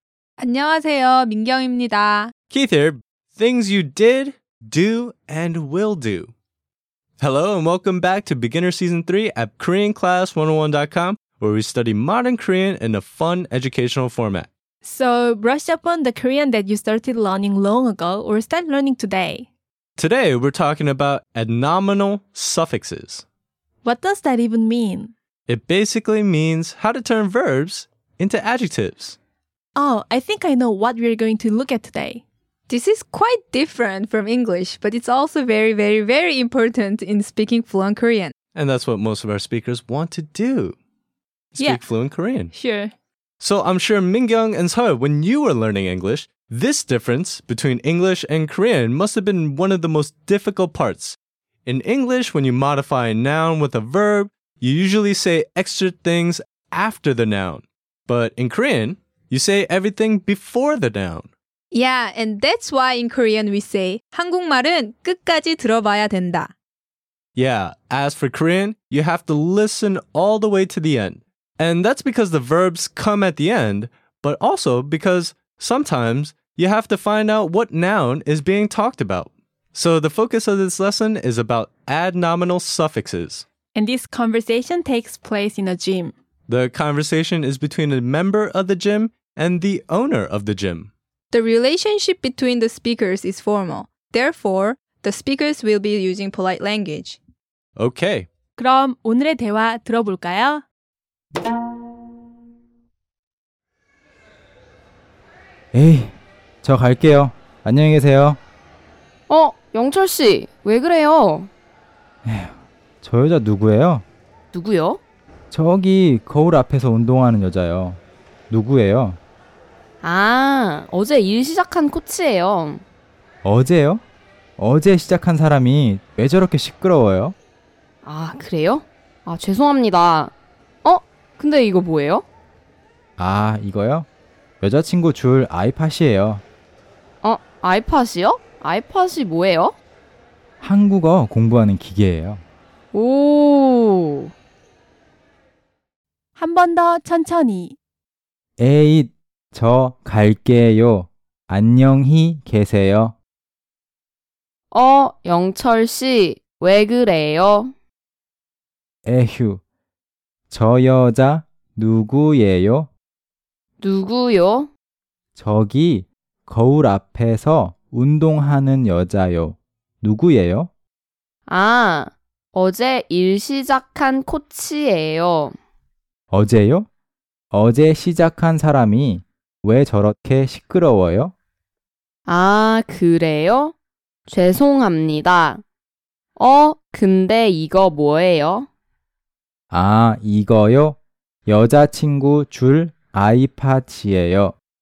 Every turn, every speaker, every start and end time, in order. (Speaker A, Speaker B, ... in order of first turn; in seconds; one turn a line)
Speaker A: 0.4-2.3
Speaker B: 2.5-6.3
Speaker B: 7.2-14.5
Speaker C: 14.8-19.5
Speaker B: 20.0-23.2
Speaker C: 23.8-25.1
Speaker B: 25.5-29.2
Speaker C: 29.8-32.2
Speaker A: 32.7-38.3
Speaker B: 38.5-40.8
Speaker B: 41.5-42.5
Speaker C: 42.5-42.9
Speaker B: 43.4-61.3
Speaker A: 61.7-66.5
Speaker B: 67.4-83.5
Speaker C: 83.8-86.1
Speaker B: 86.5-90.9
Speaker A: 91.3-97.2
Speaker B: 97.8-98.3
Speaker C: 98.6-100.7
Speaker D: 105.7-108.4
Speaker E: 109.3-111.5
Speaker D: 112.2-114.0
Speaker E: 114.5-115.0
Speaker D: 115.5-119.2
Speaker E: 120.0-122.8
Speaker D: 123.4-124.0
Speaker D: 124.6-127.4
Speaker E: 128.0-132.2
Speaker D: 133.2-134.1
Speaker D: 134.6-136.4
Speaker E: 137.2-139.8
Speaker D: 140.6-142.4
Speaker E: 142.9-144.3
Speaker C: 146.4-147.8
Speaker D: 148.6-153.2
Speaker E: 154.7-157.7
Speaker D: 159.1-159.6
Speaker D: 160.5-162.9
Speaker E: 163.8-164.7
Speaker D: 165.4-170.7
Speaker E: 171.5-175.6
Speaker D: 176.3-176.9
Speaker D: 177.5-181.3
Speaker E: 182.3-183.7
Speaker E: 184.3-185.6
Speaker E: 186.4-188.7
Speaker D: 189.7-194.6